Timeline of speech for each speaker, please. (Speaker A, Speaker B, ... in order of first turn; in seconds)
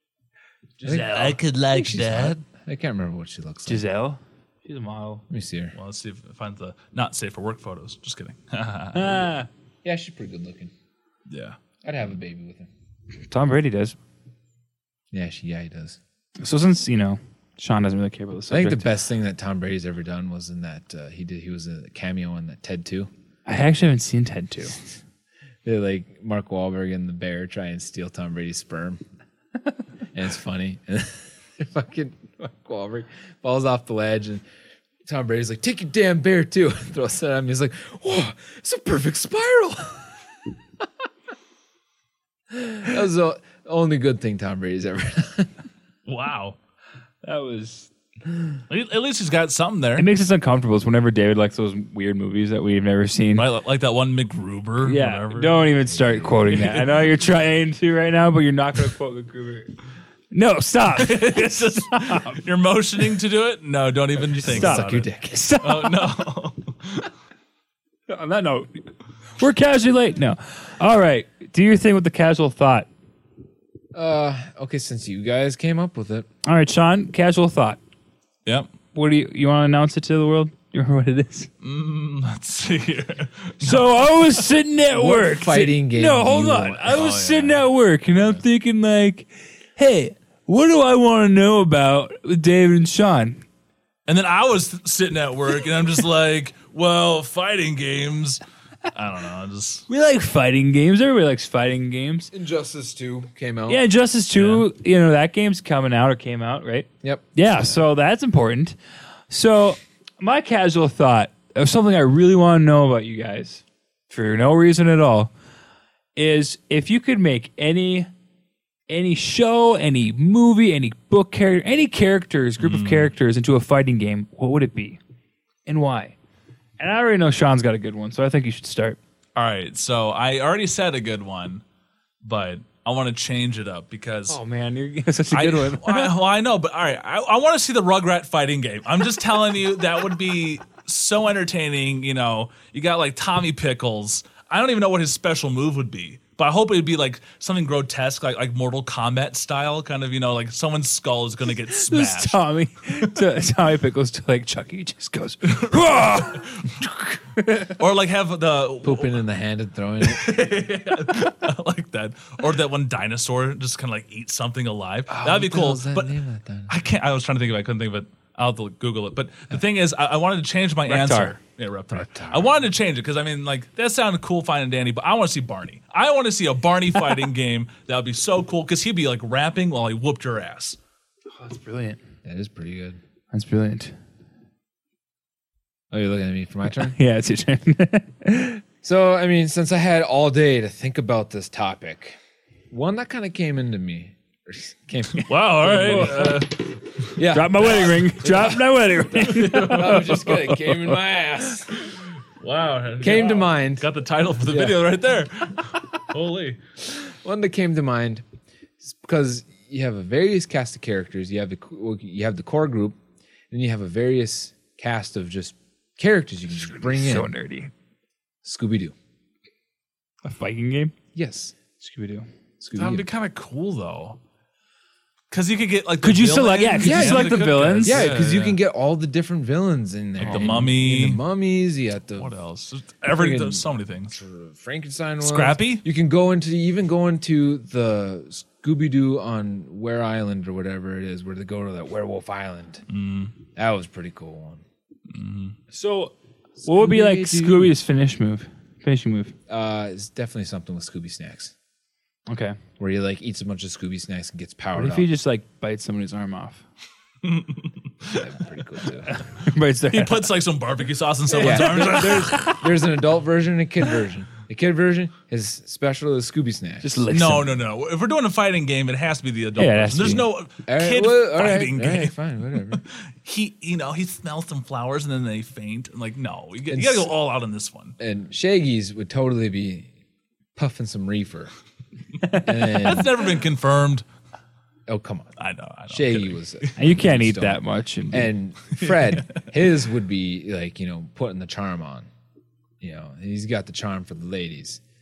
Speaker A: 0.8-3.8, 5.3-5.7, 9.8-10.7, 11.8-12.7, 15.1-16.0, 18.5-23.1, 25.6-29.0, 30.1-34.4, 35.0-40.1, 42.5-45.5, 56.0-56.3, 64.4-65.5, 73.9-76.2, 84.9-87.0, 102.3-103.8, 107.0-107.3, 158.8-160.4, 165.1-166.7, 171.9-172.6, 182.2-183.0, 185.9-186.9, 188.8-192.2, 192.7-196.4, 197.1-198.6, 199.5-201.9, 203.0-203.9, 204.4-204.8, 206.9-208.2, 208.8-213.0, 213.5-217.3, 218.4-218.9, 221.1-221.6, 222.6-223.1, 226.8-232.3, 233.1-242.8, 243.6-244.6, 246.6-247.7, 249.5-251.5, 252.8-255.1, 258.1-259.2, 261.3-266.9, 270.6-272.8, 276.7-277.1, 278.0-279.9, 280.6-281.5, 282.3-283.3, 284.9-285.3, 285.9-292.1, 292.8-294.8
Speaker B: 0.8-2.4, 5.7-9.3, 11.3-11.6, 46.0-46.6, 48.7-50.1, 53.3-55.7, 56.5-57.0, 61.0-65.1, 65.6-67.1, 78.4-78.7, 81.6-84.5, 86.9-87.7, 94.0-99.9, 104.3-104.7, 122.6-123.1, 129.3-131.6, 132.2-134.4, 135.3-152.4, 155.4-156.8, 157.8-159.2, 160.0-166.2, 166.7-180.8, 195.2-197.1, 197.6-197.9, 199.1-200.1, 202.2-206.6, 222.7-224.2, 225.3-228.6, 230.2-231.2, 232.2-234.2, 235.2-235.8, 242.9-243.3, 245.1-245.6, 257.2-258.3, 259.9-262.5, 267.1-278.0, 282.6-284.1, 285.4-286.7, 288.8-289.5
Speaker C: 0.9-1.4, 3.7-5.2, 8.9-9.5, 13.2-13.9, 16.4-18.9, 23.4-24.8, 47.2-47.9, 50.0-53.5, 54.8-59.7, 60.3-62.5, 64.3-66.2, 68.1-68.9, 69.4-72.9, 76.4-77.8, 78.9-81.5, 83.6-93.4, 99.9-102.3, 103.7-108.8, 109.3-115.3, 116.2-118.1, 118.9-125.0, 125.7-126.2, 126.8-129.0, 134.3-136.1, 151.7-157.8, 170.8-171.3, 181.3-182.0, 183.3-183.9, 186.7-188.6, 195.7-196.4, 197.2-201.2, 216.6-217.7, 220.2-220.9, 221.8-222.2, 226.0-228.1, 230.2-230.7, 245.7-246.1, 246.6-249.3, 252.3-252.6, 254.7-256.6, 259.1-260.3, 261.4-262.7, 266.8-267.5, 269.6-270.3, 286.8-288.3